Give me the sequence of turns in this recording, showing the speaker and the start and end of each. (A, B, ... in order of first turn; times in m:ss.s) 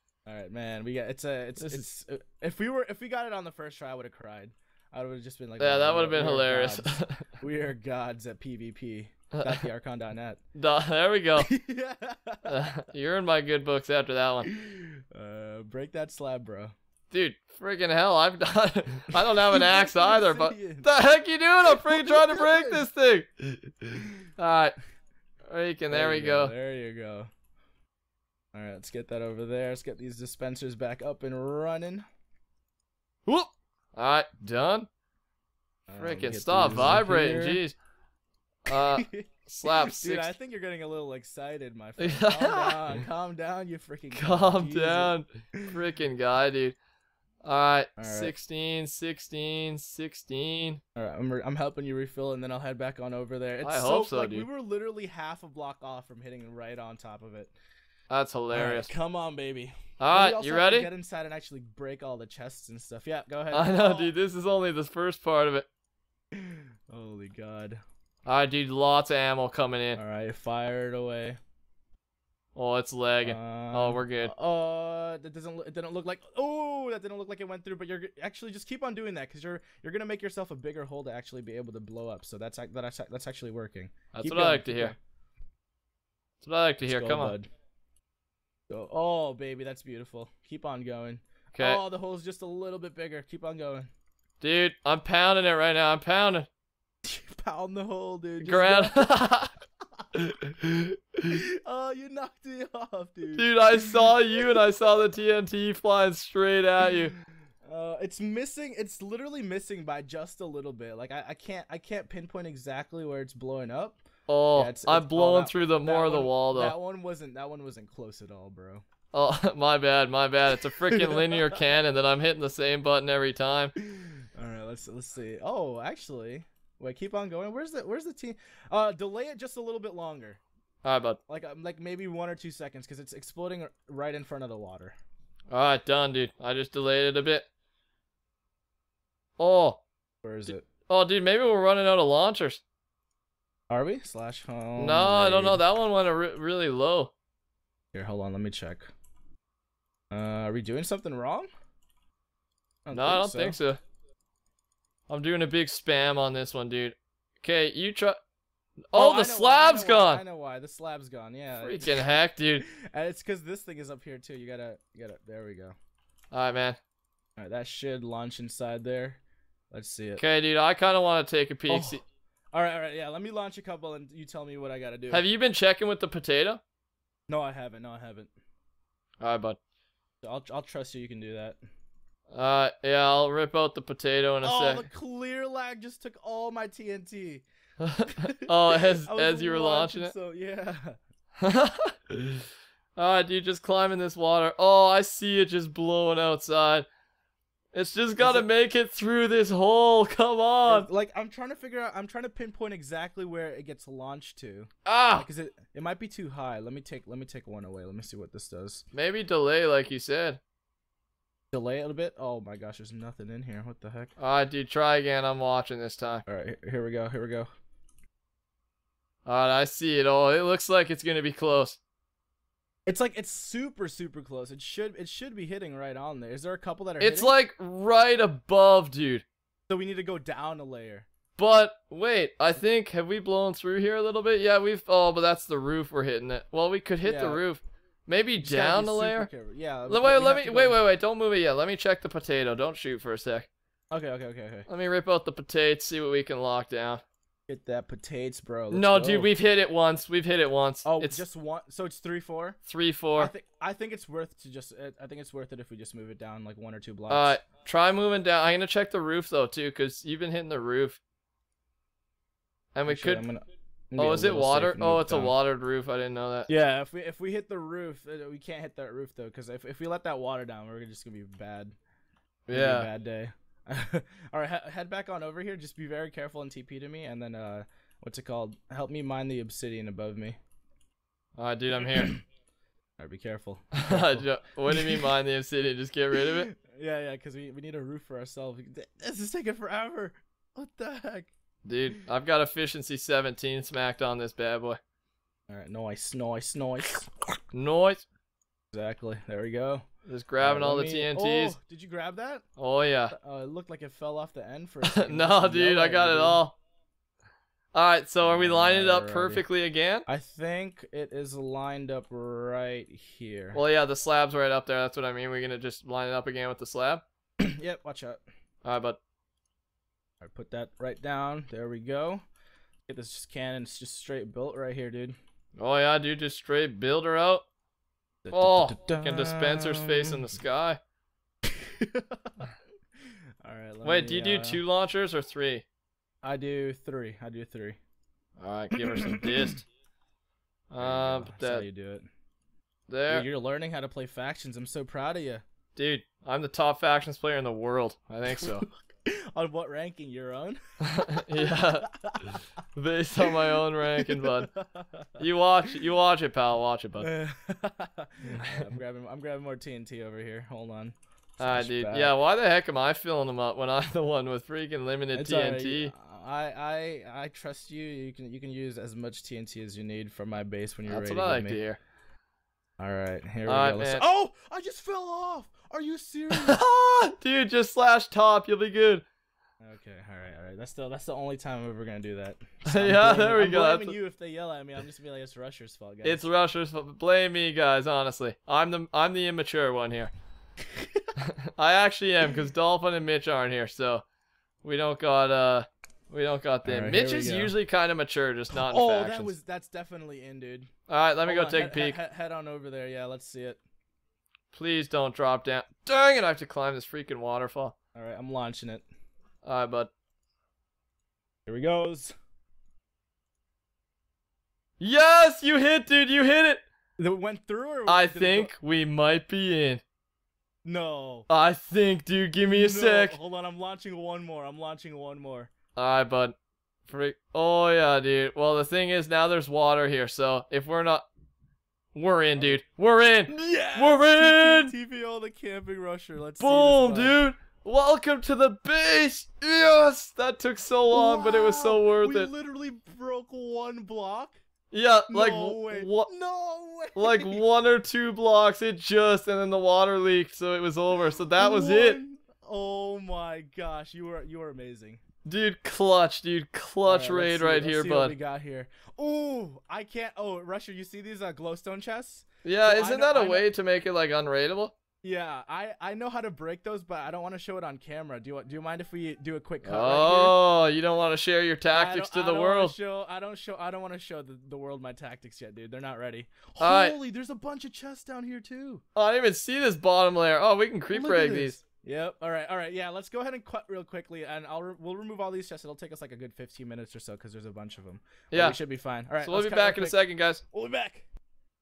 0:00.2-0:10.4 A
0:01.6-0:01.8 B
0:05.6-0:07.3 B
0:09.3-0:09.6 B
0:10.5-0:11.5 B
0:11.4-0:12.6 A
0:12.4-0:14.5 B
0:14.4-0:16.7 A
0:17.1-0:24.8 B
0:19.1-0:20.9 A
0:21.7-0:22.8 A
0:25.4-0:26.5 B
0:25.9-0:27.3 A
0:28.5-0:32.0 A
0:33.2-0:34.9 B
0:35.9-0:37.6 A
0:36.0-0:37.8 B
0:38.6-0:40.3 B
0:38.7-0:45.7 A
0:42.0-0:43.0 B
0:44.1-0:46.8 B
0:47.4-0:50.8 B
0:48.0-0:48.3 A
0:51.0-0:57.5 A
0:53.6-0:54.5 B
0:58.1-0:58.9 B
0:58.5-1:04.1 A
1:00.0-1:00.9 B
1:03.5-1:05.7 B
1:06.3-1:07.8 A
1:08.2-1:10.0 B
1:10.0-1:11.4 A
1:12.5-1:14.3 B
1:13.2-1:25.0 A
1:24.1-1:24.9 B
1:26.4-1:27.3 B
1:26.8-1:27.5 A
1:28.7-1:33.9 A
1:31.5-1:31.8 B
1:34.4-1:36.5 B
1:37.0-1:39.1 A
1:38.4-1:39.5 B
1:40.1-1:41.0 B
1:41.2-1:44.6 A
1:43.3-1:47.1 B
1:47.6-1:54.0 A
1:54.3-1:56.7 B
1:54.5-1:58.8 A
1:59.1-2:03.7 B
2:00.9-2:01.6 A
2:03.8-2:10.4 A
2:10.8-2:11.2 B
2:11.3-2:15.0 A
2:15.5-2:17.5 B
2:19.4-2:19.8 B
2:20.2-2:20.6 A
2:20.9-2:22.6 B
2:23.7-2:25.6 A
2:24.8-2:27.1 B
2:27.9-2:28.9 A
2:30.1-2:31.5 A
2:32.8-2:33.6 A
2:32.9-2:33.8 B
2:35.1-2:38.2 B
2:38.9-2:40.2 B
2:38.9-2:45.7 A
2:41.6-2:42.6 B
2:46.3-2:46.8 B
2:47.4-2:49.2 A
2:49.7-2:50.2 A
2:50.2-2:52.0 B
2:51.7-2:55.2 A
2:55.1-2:56.6 B
2:57.3-2:58.3 A
2:59.2-2:59.6 B
3:00.2-3:01.6 A
3:02.3-3:04.8 B
3:04.4-3:07.4 A
3:07.8-3:10.1 B
3:08.1-3:11.0 A
3:11.4-3:16.9 B
3:17.7-3:20.9 B
3:18.2-3:18.5 A
3:20.7-3:28.8 A
3:24.8-3:25.2 B
3:28.9-3:30.4 B
3:31.5-3:34.1 A
3:34.2-3:36.2 B
3:36.2-3:37.5 A
3:39.2-3:41.8 B
3:42.8-3:47.3 A
3:47.0-3:49.2 B
3:49.7-3:51.1 A
3:51.4-3:59.3 B
3:57.0-3:57.4 A
3:58.4-4:00.8 A
3:59.9-4:03.5 B
4:03.9-4:04.7 A
4:04.7-4:07.0 B
4:07.5-4:09.3 A
4:08.7-4:11.2 B
4:10.8-4:12.6 A
4:12.6-4:13.3 B
4:13.2-4:17.4 A
4:17.1-4:21.0 B
4:22.7-4:23.2 B
4:22.9-4:25.3 A
4:24.0-4:26.5 B
4:26.5-4:31.7 A
4:32.5-4:32.9 B
4:32.5-4:40.4 A
4:41.4-4:42.1 B
4:41.9-4:42.2 A
4:43.0-4:45.1 A
4:43.8-4:46.5 B
4:46.1-4:51.3 A
4:51.6-4:54.8 B
4:55.5-4:57.1 A
4:57.5-4:58.0 B
4:58.7-4:59.8 A
5:00.0-5:01.6 B
5:00.4-5:02.4 A
5:02.6-5:03.1 B
5:03.1-5:06.4 A
5:04.9-5:06.6 B
5:07.7-5:10.0 B
5:08.2-5:09.4 A
5:10.1-5:13.6 A
5:13.5-5:17.0 B
5:17.4-5:18.2 A
5:18.6-5:19.0 B
5:20.2-5:22.2 A
5:22.9-5:25.2 A
5:25.6-5:27.4 B
5:28.2-5:30.3 A
5:28.3-5:30.8 B
5:31.5-5:32.5 A
5:33.4-5:34.6 A
5:33.8-5:35.6 B
5:36.2-5:37.8 A
5:38.4-5:39.6 B
5:38.7-5:39.6 A
5:40.7-5:41.6 B
5:40.8-5:42.1 A
5:42.9-5:43.2 B
5:43.1-5:45.4 A
5:45.8-5:48.6 B
5:48.3-5:52.4 A
5:50.8-5:54.5 B
5:53.2-5:55.1 A
5:55.2-5:57.1 B
5:57.0-6:02.2 A
6:01.4-6:05.9 B
6:05.1-6:11.6 A
6:10.9-6:11.8 B
6:12.8-6:16.6 A
6:13.4-6:14.0 B
6:16.3-6:19.0 B
6:19.6-6:26.2 A
6:22.6-6:24.0 B
6:26.0-6:30.1 B
6:30.7-6:31.1 A
6:31.2-6:34.0 B
6:34.6-6:39.3 B
6:36.6-6:37.5 A
6:38.5-6:40.7 A
6:40.9-6:42.0 B
6:41.2-6:43.6 A
6:44.5-6:47.7 B
6:47.9-6:48.8 A
6:49.4-6:49.9 B
6:51.5-6:52.1 A
6:54.8-6:56.6 B
6:57.0-6:58.5 A
6:57.9-6:59.8 B
7:00.6-7:01.3 A
7:01.3-7:03.2 B
7:02.5-7:05.5 A
7:05.8-7:06.4 B
7:06.9-7:11.0 B
7:11.9-7:14.7 B
7:13.3-7:17.2 A
7:16.4-7:22.3 B
7:20.9-7:24.4 A
7:24.7-7:26.1 B
7:25.1-7:27.4 A
7:27.0-7:32.0 B
7:31.4-7:35.0 A
7:35.2-7:38.1 B
7:36.8-7:43.5 A
7:42.4-7:44.7 B
7:45.0-7:50.4 A
7:49.6-7:52.7 B
7:51.7-7:58.8 A
7:56.6-7:57.0 B
7:58.9-8:01.6 B
8:00.9-8:11.1 A
8:08.3-8:08.6 B
8:09.2-8:10.4 B